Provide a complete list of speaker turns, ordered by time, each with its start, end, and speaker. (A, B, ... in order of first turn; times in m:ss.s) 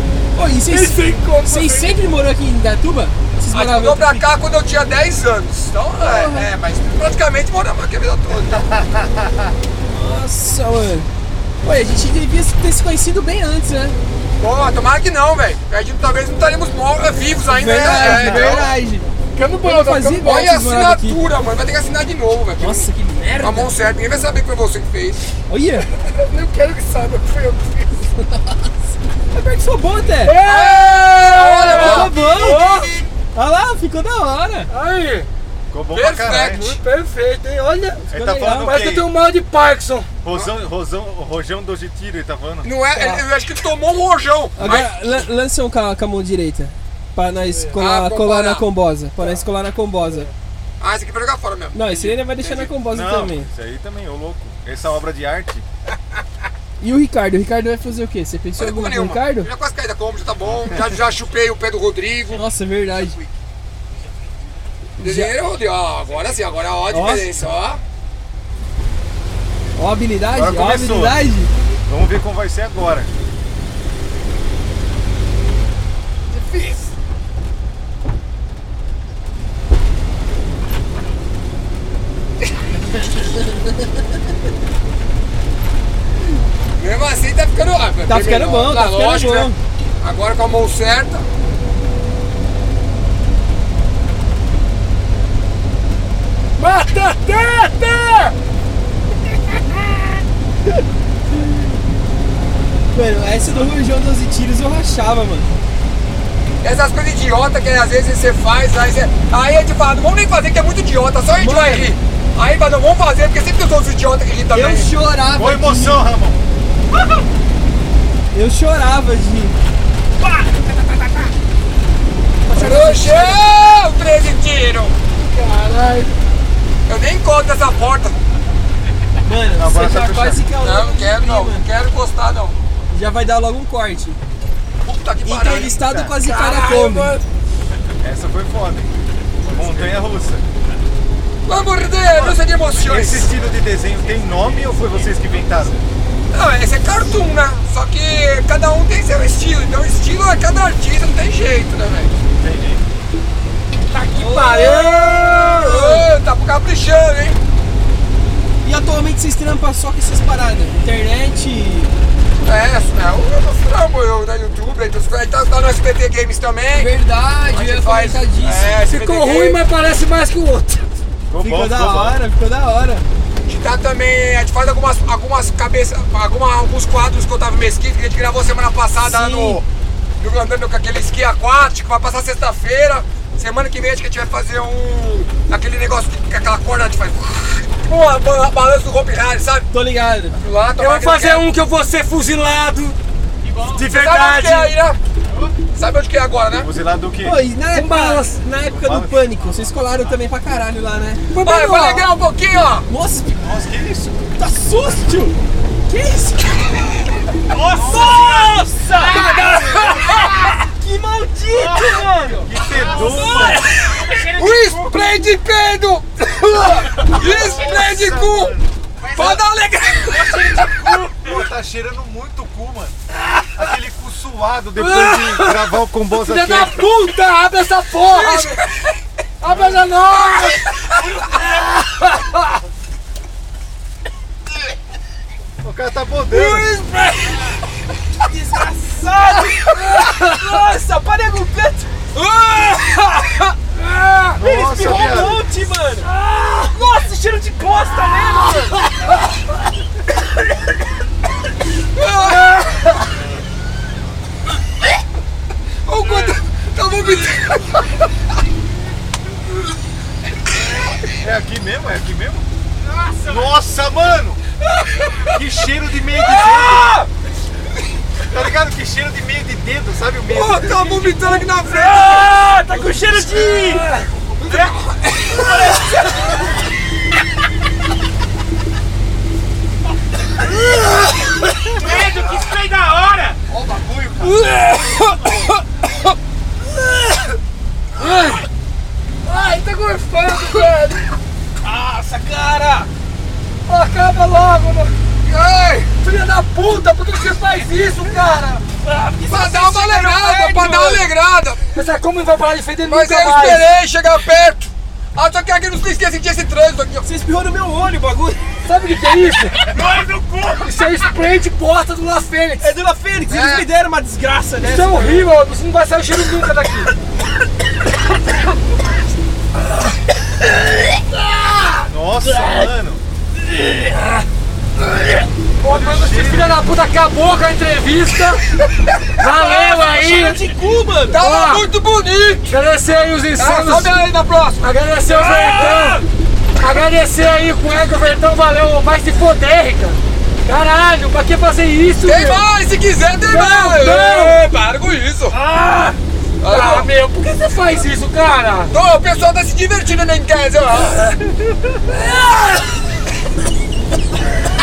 0:00.3-0:04.2 A
0:00.7-0:02.0 B
0:03.5-0:08.7 C
0:06.0-0:06.5 A
0:08.5-0:09.4 D
0:09.9-0:11.1 A
0:11.6-0:14.0 A
0:14.4-0:18.7 C
0:17.5-0:19.1 A
0:17.9-0:18.6 B
0:19.3-0:20.4 B
0:19.6-0:21.2 A
0:19.9-0:22.9 C
0:22.6-0:23.7 A
0:23.4-0:25.4 C
0:25.5-0:25.9 A
0:26.0-0:28.0 B
0:28.2-0:28.7 A
0:29.3-0:30.4 A
0:30.2-0:32.9 B
0:30.4-0:32.9 C
0:31.6-0:32.7 A
0:31.7-0:32.1 D
0:33.3-0:34.7 A
0:34.7-0:35.3 B
0:35.7-0:36.8 D
0:35.9-0:36.8 C
0:36.5-0:40.1 B
0:38.0-0:38.8 A
0:38.1-0:39.1 D
0:40.2-0:42.7 D
0:42.6-0:45.2 C
0:42.9-0:43.2 A
0:44.6-0:50.3 A
0:47.5-0:47.8 B
0:47.8-0:48.6 C
0:50.8-0:52.7 C
0:51.7-0:53.5 A
0:52.9-0:55.6 D
0:56.8-0:59.5 A
0:58.6-1:02.4 C
1:02.3-1:03.2 A
1:05.0-1:05.3 A
1:05.0-1:07.8 C
1:06.9-1:07.4 A
1:09.8-1:11.5 A
1:10.3-1:11.2 D
1:11.9-1:13.1 D
1:16.3-1:16.9 C
1:26.8-1:31.2 C
1:28.0-1:29.6 A
1:36.6-1:38.3 B
1:42.9-1:45.5 A
1:46.6-1:54.9 C
1:51.4-1:51.9 A
1:54.5-1:56.0 A
1:55.3-1:56.4 D
1:56.9-1:57.2 A
1:58.3-1:59.5 A
2:02.5-2:03.4 B
2:02.5-2:04.9 C
2:05.3-2:06.1 B
2:06.9-2:08.2 C
2:09.2-2:11.6 A
2:09.6-2:10.4 D
2:10.6-2:12.5 C
2:12.9-2:14.2 A
2:14.8-2:17.2 C
2:15.2-2:17.2 A
2:15.8-2:16.2 D
2:18.0-2:18.9 D
2:19.5-2:19.9 E
2:19.5-2:20.4 D
2:21.4-2:23.3 C
2:22.8-2:25.8 D
2:23.5-2:25.0 E
2:26.3-2:32.1 C
2:32.4-2:32.8 D
2:33.9-2:36.0 B
2:34.1-2:35.4 A
2:34.1-2:37.4 C
2:38.6-2:41.9 A
2:42.4-2:46.9 C
2:46.8-2:48.7 A
2:47.5-2:49.6 C
2:48.8-2:50.8 B
2:51.3-2:52.2 D
2:51.4-2:53.0 A
2:53.5-2:59.6 C
2:59.0-2:59.6 A
3:00.2-3:09.7 C
3:09.7-3:10.4 A
3:10.3-3:11.5 C
3:10.8-3:13.0 B
3:13.4-3:13.9 E
3:13.6-3:14.7 B
3:13.8-3:15.0 C
3:15.3-3:15.6 E
3:15.7-3:16.7 C
3:16.6-3:17.4 D
3:17.2-3:21.2 A
3:17.7-3:18.4 B
3:18.8-3:19.3 D
3:19.5-3:20.0 E
3:21.3-3:22.2 B
3:21.4-3:22.9 C
3:22.9-3:23.5 A
3:23.4-3:24.2 D
3:24.2-3:25.4 A
3:25.9-3:33.7 A
3:27.5-3:30.6 E
3:27.6-3:28.6 D
3:31.5-3:35.0 E
3:32.4-3:33.7 D
3:33.7-3:38.6 C
3:36.9-3:37.8 E
3:37.0-3:38.6 D
3:39.0-3:39.4 E
3:39.1-3:41.0 C
3:40.1-3:41.3 E
3:41.2-3:43.0 D
3:43.5-3:46.9 D
3:44.8-3:48.7 B
3:48.1-3:48.5 C
3:49.4-3:52.5 B
3:49.4-3:49.9 D
3:55.6-3:56.8 D
3:56.3-3:57.5 A
3:58.2-4:03.0 A
4:03.7-4:04.4 B
4:04.3-4:05.4 D
4:04.4-4:06.1 A
4:06.1-4:06.8 B
4:06.7-4:08.8 A
4:11.9-4:12.8 C
4:15.8-4:17.9 C
4:16.0-4:16.4 E
4:21.2-4:22.4 D
4:22.8-4:23.6 E
4:23.3-4:24.4 D
4:25.3-4:27.0 D
4:28.2-4:31.0 D
4:30.3-4:32.4 C
4:31.2-4:34.1 B
4:31.8-4:33.8 A
4:41.6-4:43.4 E
4:43.5-4:45.4 C
4:48.0-4:48.4 C
4:49.2-4:51.1 B
4:50.4-4:50.7 C
4:51.6-4:52.9 A
4:53.7-4:54.9 B
4:55.2-4:55.9 C
4:56.0-4:58.6 B
4:58.8-5:01.1 A
4:59.3-5:01.6 C
5:01.7-5:03.7 B
5:02.8-5:07.0 C
5:07.0-5:08.4 A
5:08.6-5:09.6 B
5:09.7-5:10.7 E
5:10.4-5:12.7 B
5:12.6-5:15.3 A
5:13.3-5:13.6 C
5:14.6-5:16.9 B
5:21.9-5:23.0 D
5:25.6-5:28.4 B
5:25.6-5:26.6 D
5:29.0-5:30.4 B
5:29.6-5:31.2 A
5:31.1-5:32.5 C
5:31.2-5:31.6 B
5:32.5-5:33.9 B
5:33.3-5:36.0 C
5:34.6-5:36.0 B
5:36.6-5:42.4 B
5:42.0-5:45.4 C
5:43.2-5:44.4 B
5:45.3-5:48.7 B
5:46.4-5:46.9 C
5:48.7-5:51.1 C
5:51.8-5:52.6 B